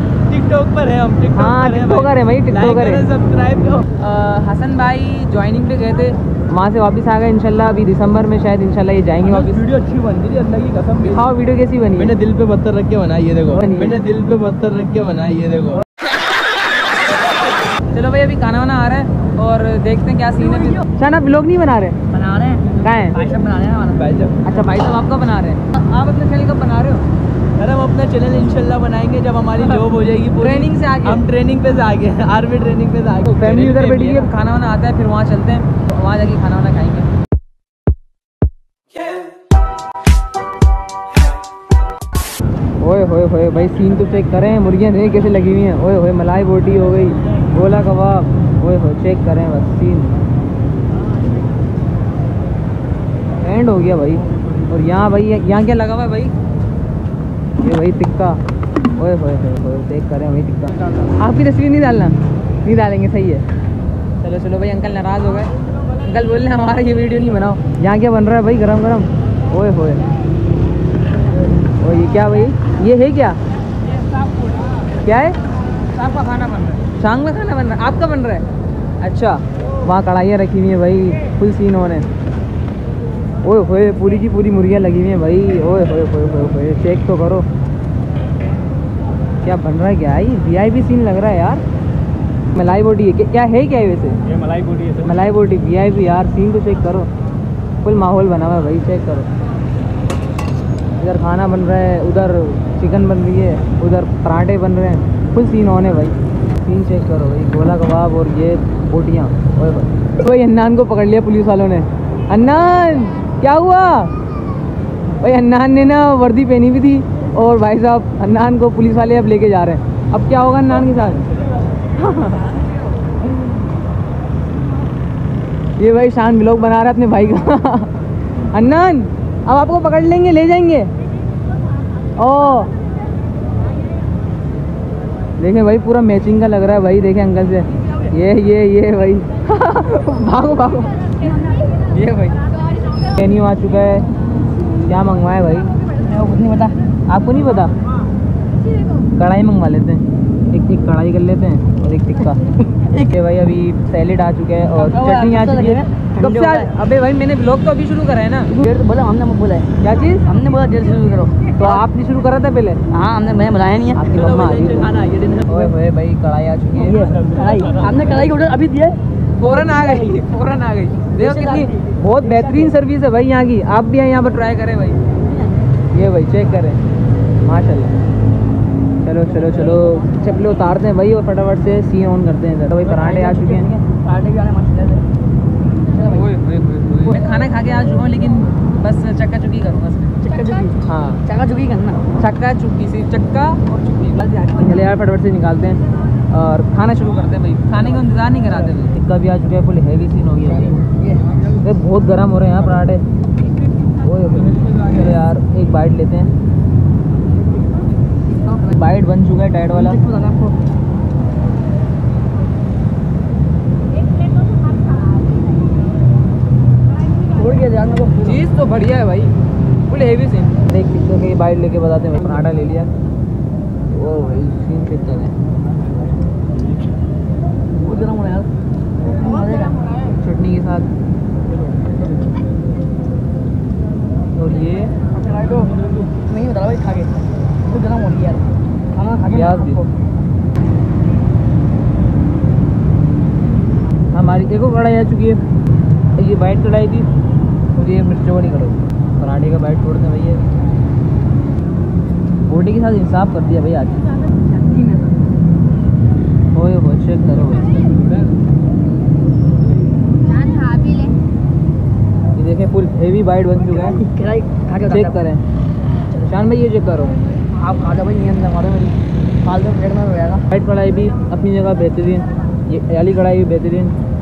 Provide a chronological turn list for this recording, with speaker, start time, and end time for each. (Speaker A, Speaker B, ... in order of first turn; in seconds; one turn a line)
Speaker A: 0.3-3.9
Speaker B: 1.3-3.0
Speaker B: 4.0-9.7
Speaker A: 9.2-11.2
Speaker B: 11.0-12.1
Speaker A: 11.9-15.8
Speaker B: 13.5-14.0
Speaker B: 17.9-22.0
Speaker C: 22.1-24.0
Speaker B: 22.8-23.2
Speaker A: 23.9-24.4
Speaker B: 24.4-27.0
Speaker A: 27.6-34.3
Speaker B: 30.4-31.2
Speaker B: 33.3-37.1
Speaker B: 42.8-50.2
Speaker B: 53.4-56.3
Speaker B: 57.6-58.4
Speaker B: 59.0-63.4
Speaker B: 64.2-65.5
Speaker B: 66.0-70.0
Speaker B: 71.8-73.4
Speaker B: 75.0-75.3
Speaker B: 76.0-78.5
Speaker B: 79.0-82.1
Speaker B: 83.4-87.5
Speaker B: 89.4-91.6
Speaker B: 92.5-94.2
Speaker A: 94.4-95.0
Speaker B: 95.0-97.1
Speaker B: 97.8-99.3
Speaker B: 101.0-114.1
Speaker B: 115.2-121.3
Speaker B: 122.0-122.5
Speaker B: 125.8-128.0
Speaker B: 128.5-130.9
Speaker B: 132.2-132.7
Speaker B: 135.4-141.1
Speaker B: 141.9-142.4
Speaker B: 143.1-144.1
Speaker B: 144.8-145.7
Speaker C: 146.0-146.8
Speaker B: 147.1-147.7
Speaker B: 149.2-152.4
Speaker B: 153.1-158.6
Speaker C: 154.8-156.7
Speaker C: 158.5-159.7
Speaker B: 159.8-160.2
Speaker C: 160.3-161.4
Speaker B: 161.6-162.8
Speaker C: 162.9-164.6
Speaker B: 163.9-164.9
Speaker A: 164.1-165.6
Speaker B: 165.5-167.0
Speaker C: 166.8-169.0
Speaker A: 167.1-168.0
Speaker B: 169.4-175.0
Speaker C: 171.2-172.7
Speaker B: 175.9-176.8
Speaker B: 177.4-177.9
Speaker B: 179.0-183.8
Speaker C: 182.8-185.1
Speaker C: 185.9-186.3
Speaker B: 186.1-190.2
Speaker C: 190.2-192.0
Speaker B: 190.8-191.2
Speaker B: 192.2-200.8
Speaker C: 194.3-194.7
Speaker C: 200.5-201.4
Speaker B: 201.6-203.0
Speaker B: 204.0-206.3
Speaker B: 208.5-210.0
Speaker C: 209.7-210.6
Speaker C: 217.3-218.4
Speaker B: 218.2-219.3
Speaker B: 219.9-222.9
Speaker B: 223.9-225.3
Speaker C: 227.8-228.5
Speaker C: 229.0-229.8
Speaker B: 230.2-230.9
Speaker B: 234.4-234.9
Speaker C: 235.1-239.9
Speaker B: 239.3-239.8
Speaker B: 244.1-245.4
Speaker B: 246.2-247.1
Speaker B: 247.8-250.4
Speaker B: 252.5-254.0
Speaker C: 254.5-255.2
Speaker B: 256.5-257.7
Speaker B: 262.4-264.0
Speaker C: 263.7-265.1
Speaker B: 264.8-265.4
Speaker B: 266.2-267.2
Speaker C: 267.5-270.4
Speaker B: 270.5-274.0